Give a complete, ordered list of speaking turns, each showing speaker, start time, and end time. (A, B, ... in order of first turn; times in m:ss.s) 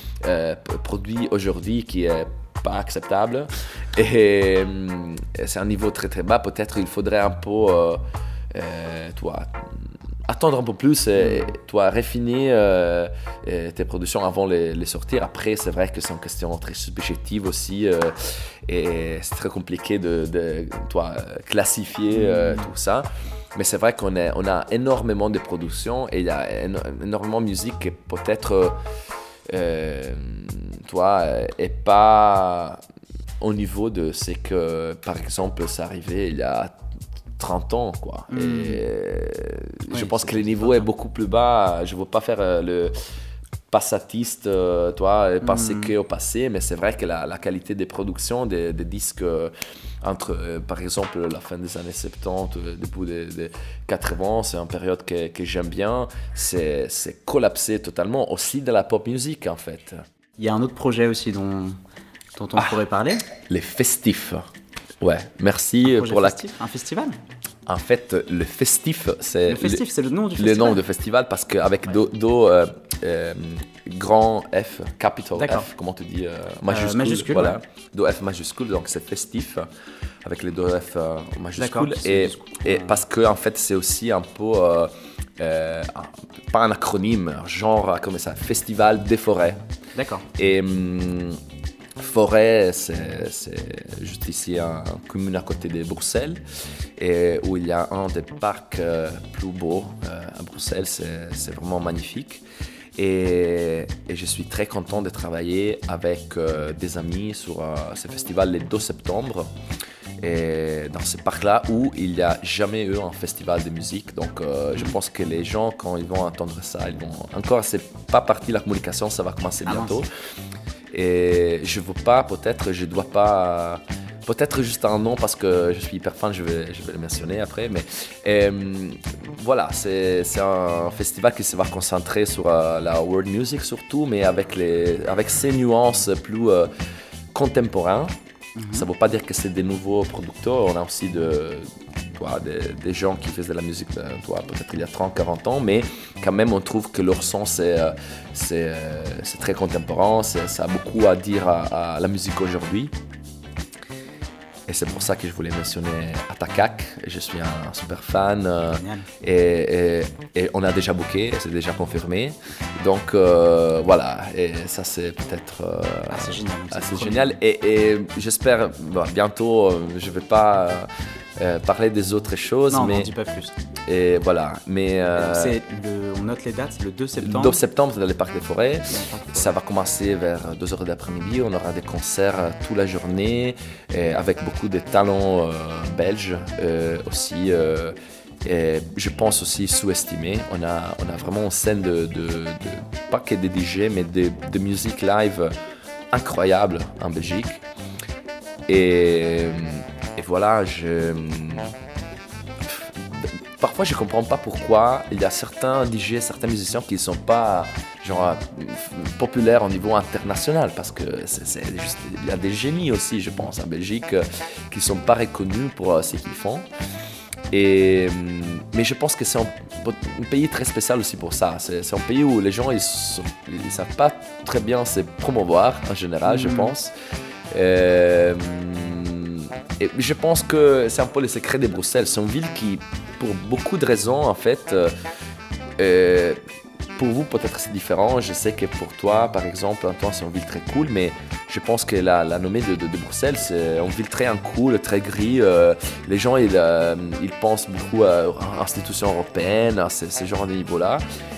0:00.2-0:28.8 A
0:11.2-0:11.5 B
0:29.5-0:32.8 A
0:33.4-0:36.8 A
0:37.4-0:42.9 A
0:38.3-0:38.8 B
0:39.9-0:40.8 B
0:43.7-1:00.0 A
0:45.4-0:45.9 B
1:00.4-1:01.8 B
1:02.4-1:03.2 B
1:03.4-1:04.4 A
1:05.0-1:06.4 A
1:05.8-1:07.2 B
1:07.6-1:09.8 A
1:09.4-1:10.8 B
1:10.4-1:19.7 A
1:15.3-1:15.7 B
1:16.7-1:17.6 B
1:20.2-1:29.6 A
1:21.5-1:23.0 B
1:29.9-1:30.3 B
1:30.4-1:31.4 A
1:32.0-1:36.4 A
1:37.0-1:49.5 A
1:50.2-2:00.1 A
1:59.6-2:00.0 B
2:00.9-2:16.7 A
2:17.3-2:18.1 A
2:18.6-2:18.9 B
2:18.7-2:32.9 A
2:34.7-2:53.1 A
2:38.7-2:39.0 B
2:46.1-2:47.3 B
2:52.7-2:53.5 B
2:53.8-2:55.6 A
2:55.2-2:57.6 B
2:57.2-3:15.5 A
2:58.9-2:59.5 B
3:16.1-3:17.6 A
3:18.7-3:21.7 A
3:22.6-3:36.7 A
3:37.5-3:46.9 A
3:46.2-3:46.7 B
3:47.5-3:54.9 A
3:55.8-3:56.4 A
3:56.9-4:11.0 A